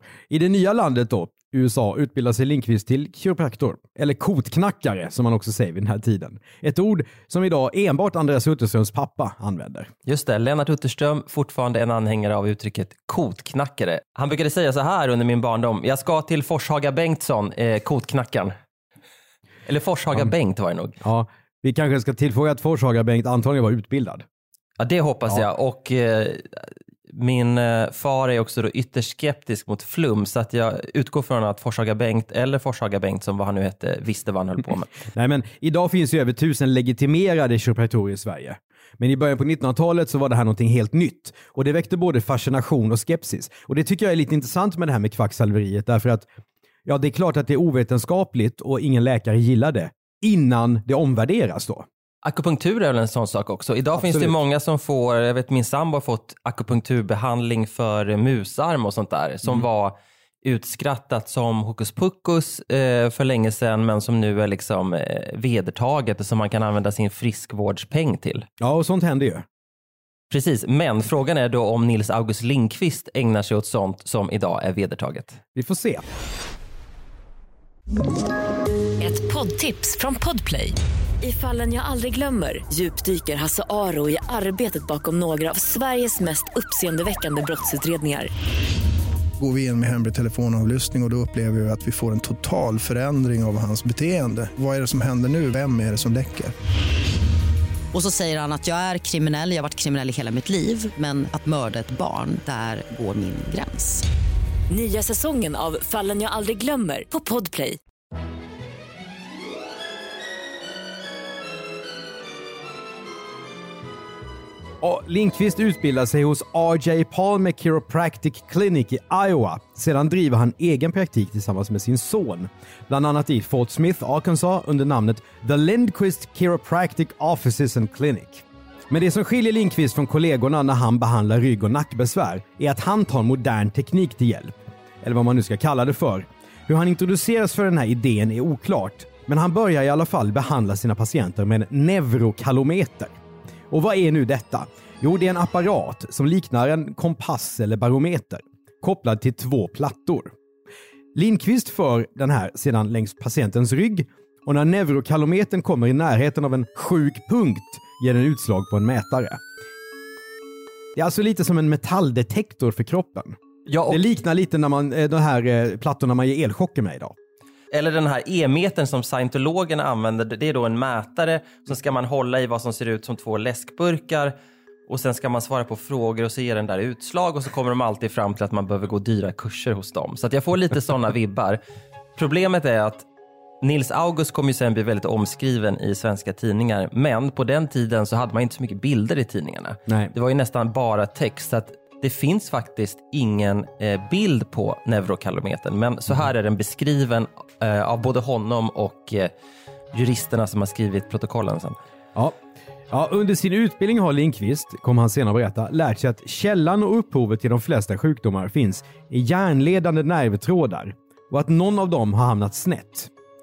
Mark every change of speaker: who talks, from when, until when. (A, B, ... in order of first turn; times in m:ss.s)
0:00.3-0:09.9 A
0:10.1-0:18.6 B
0:19.7-0:21.0 B
0:21.0-0:24.2 A
0:24.8-0:34.9 B
0:35.1-0:46.2 A
0:46.9-0:51.9 A
0:52.2-1:08.5 B
0:54.0-0:54.4 A
1:08.6-1:09.4 A
1:10.3-1:15.4 B
1:15.6-1:16.0 A
1:19.0-1:28.3 C
1:29.4-1:36.5 D
1:37.9-1:44.0 E
1:44.7-1:47.8 C
1:54.8-2:23.1 A
2:23.7-2:30.3 A
2:31.1-2:39.4 A
2:41.0-2:43.4 A
2:43.7-2:44.0 B
2:43.9-2:47.1 A
2:47.7-2:54.3 B
2:54.9-3:01.6 B
3:02.2-3:03.1 B
3:03.6-3:19.3 B
3:09.9-3:10.1 A
3:19.9-3:21.8 B
3:22.9-3:33.1 A